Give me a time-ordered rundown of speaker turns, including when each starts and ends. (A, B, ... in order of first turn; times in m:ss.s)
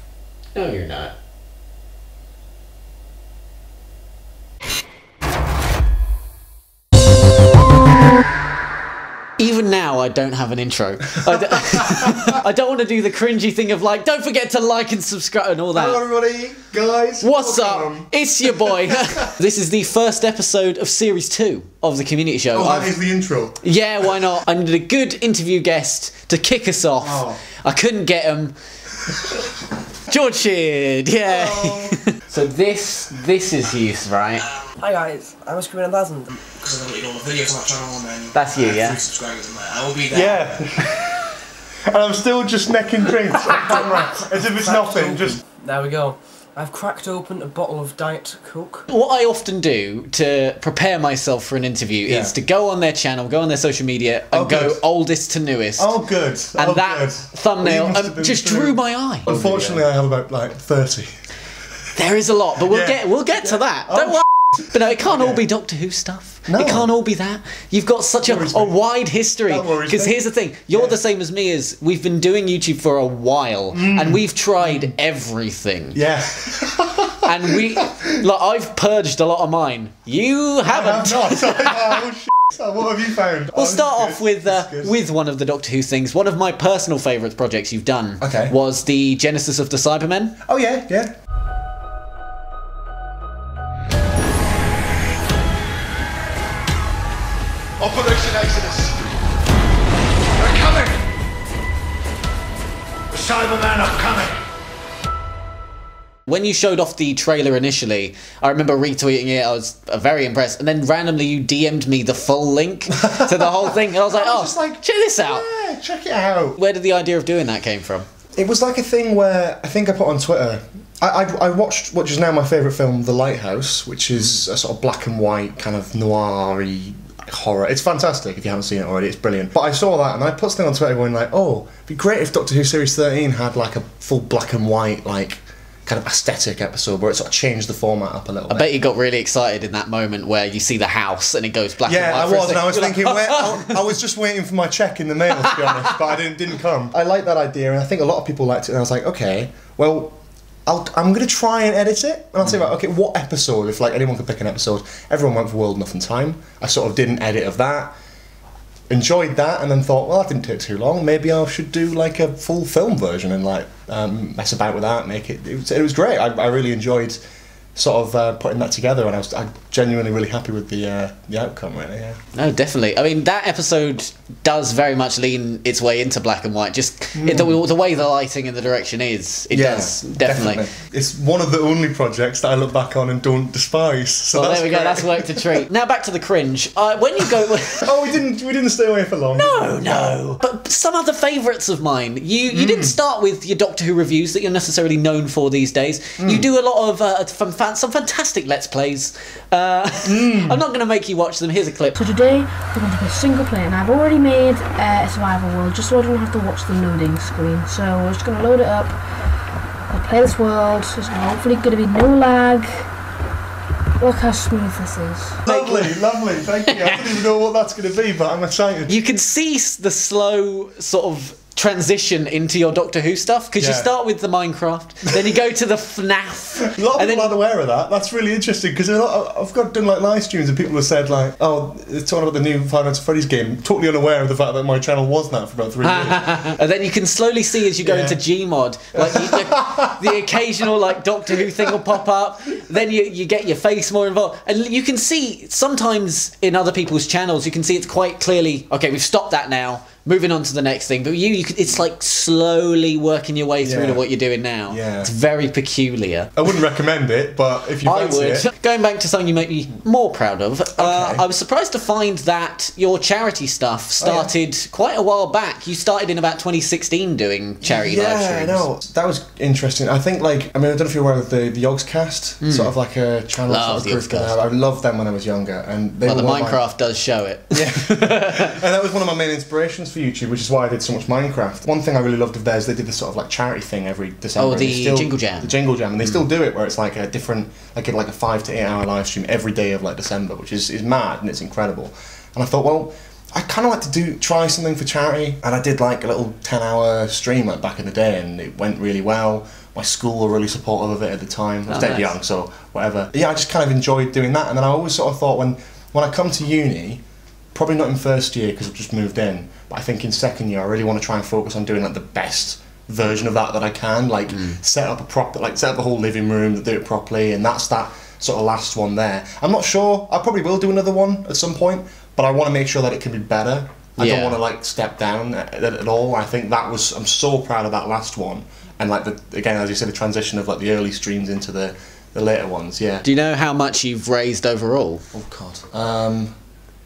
0:00.5-0:01.1 A
0:09.4-0:16.0 A
0:11.5-0:12.2 B
0:15.7-0:19.3 B
0:17.2-0:22.9 A
0:22.5-0:24.3 B
0:23.6-0:28.6 A
0:27.0-0:27.4 B
0:30.1-0:34.4 A
0:31.2-0:32.0 B
0:34.8-0:40.3 C
0:38.3-0:39.0 A
0:40.1-0:41.2 B
0:41.9-0:45.4 B
0:44.6-0:48.8 C
0:48.9-0:56.0 A
0:52.0-0:52.3 B
0:54.3-0:54.8 B
0:55.8-1:01.1 B
0:56.5-0:59.7 A
1:01.9-1:16.0 A
1:02.7-1:05.4 B
1:06.5-1:06.9 B
1:08.2-1:08.8 B
1:09.5-1:11.0 B
1:13.7-1:14.9 B
1:15.9-1:18.1 B
1:17.2-1:21.9 A
1:20.7-1:25.0 B
1:23.5-1:30.4 A
1:28.2-1:28.5 B
1:30.4-1:31.1 B
1:37.9-1:38.6 B
1:43.3-1:44.2 C
1:46.3-1:55.4 A
1:53.0-1:56.6 B
1:56.6-1:58.1 A
1:58.4-2:18.7 B
2:18.5-2:23.8 A
2:21.8-2:37.9 B
2:38.9-2:47.2 B
2:47.8-2:52.2 B
2:52.3-3:00.6 A
2:57.2-2:57.6 B
2:59.5-3:05.6 B
3:04.3-3:07.9 A
3:07.8-3:10.2 B
3:09.4-3:21.9 A
3:12.5-3:13.0 B
3:16.2-3:16.4 B
3:20.0-3:20.6 B
3:22.0-3:29.0 D
3:29.9-3:32.8 D
3:34.0-3:35.4 D
3:35.4-3:36.0 A
3:35.4-3:39.0 B
3:38.9-3:47.3 A
3:43.6-3:43.9 B
3:46.6-3:56.6 B
3:55.8-4:16.3 A
3:57.8-3:58.2 B
3:58.9-4:00.2 B
4:13.6-4:14.0 B
4:14.7-4:15.1 B
4:16.4-4:18.5 B
4:17.8-4:28.6 A
4:20.8-4:21.2 B
4:24.0-4:24.3 B
4:27.6-4:36.6 B
4:32.4-4:32.7 A
4:33.5-4:34.4 A
4:36.0-4:38.6 A
4:37.5-5:07.0 B
4:44.4-4:46.2 A
5:01.7-5:02.1 A
5:07.5-5:33.0 B
5:24.0-5:24.4 A
5:33.0-5:35.0 A
5:35.1-5:36.3 B